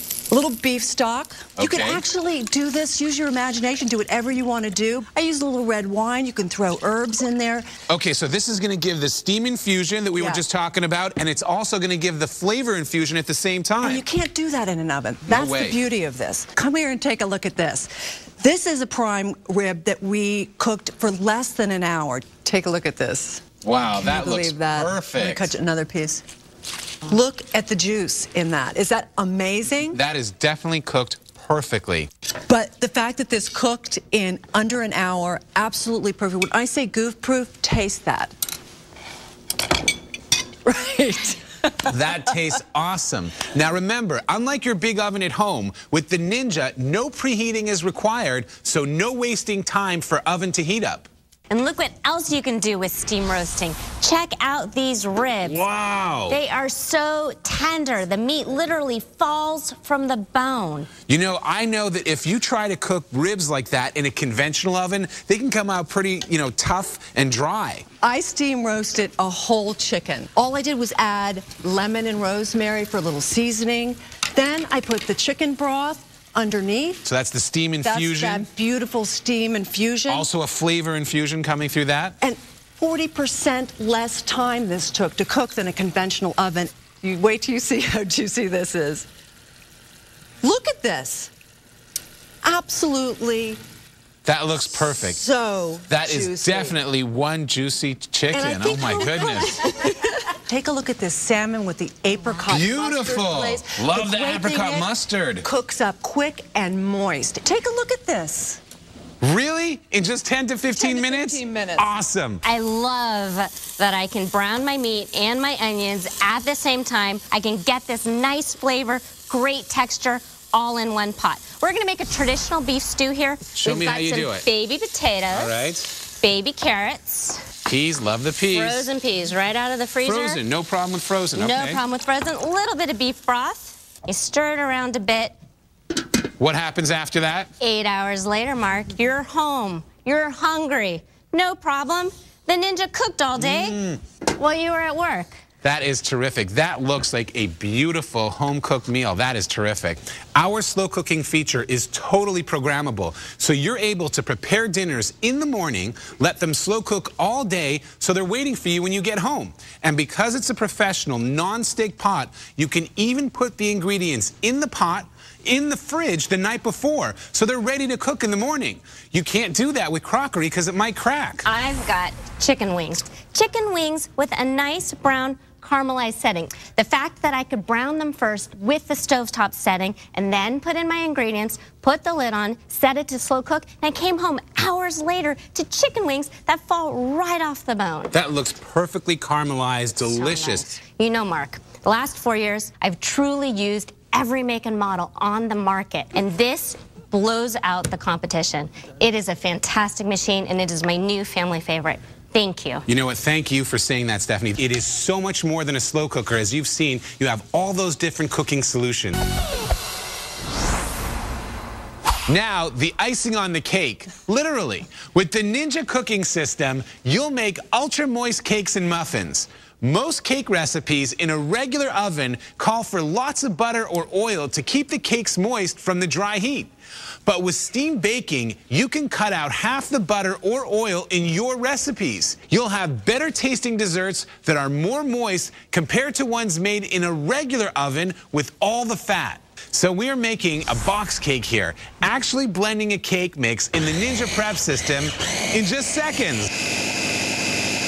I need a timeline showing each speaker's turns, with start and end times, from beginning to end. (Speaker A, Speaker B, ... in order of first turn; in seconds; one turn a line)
Speaker A: 0.3-7.7
Speaker B: 1.6-2.0
Speaker B: 7.9-14.0
Speaker A: 10.2-10.4
Speaker A: 13.8-17.9
Speaker B: 15.3-15.8
Speaker A: 18.4-23.4
Speaker B: 23.6-25.5
Speaker A: 24.0-26.2
Speaker A: 27.1-30.0
Speaker B: 29.9-32.1
Speaker A: 32.5-38.3
Speaker A: 40.6-41.6
Speaker B: 41.9-51.1
Speaker C: 51.5-55.6
Speaker B: 55.4-56.4
Speaker C: 56.3-60.9
Speaker B: 61.1-67.8
Speaker A: 68.0-77.0
Speaker B: 77.0-78.5
Speaker A: 77.8-80.3
Speaker B: 80.1-82.2
Speaker A: 82.2-89.1
Speaker A: 90.4-91.3
Speaker A: 92.4-93.6
Speaker B: 94.2-95.2
Speaker A: 94.9-96.8
Speaker B: 95.9-99.8
Speaker A: 98.3-104.9
Speaker B: 102.5-105.4
Speaker A: 105.4-108.6
Speaker B: 109.2-112.4
Speaker A: 110.8-111.9
Speaker C: 112.4-125.6
Speaker B: 123.5-124.4
Speaker B: 125.3-125.9
Speaker C: 126.1-127.5
Speaker B: 127.7-128.9
Speaker C: 128.5-130.4
Speaker B: 130.0-131.8
Speaker C: 131.3-135.3
Speaker B: 136.4-137.5
Speaker C: 137.6-143.7
Speaker B: 143.4-144.0
Speaker C: 144.3-145.3
Speaker B: 145.6-171.4
Speaker C: 171.4-188.1
Speaker B: 188.1-190.7
Speaker C: 190.0-202.8
Speaker B: 202.9-209.2
Speaker B: 212.3-226.7
Speaker B: 227.2-246.5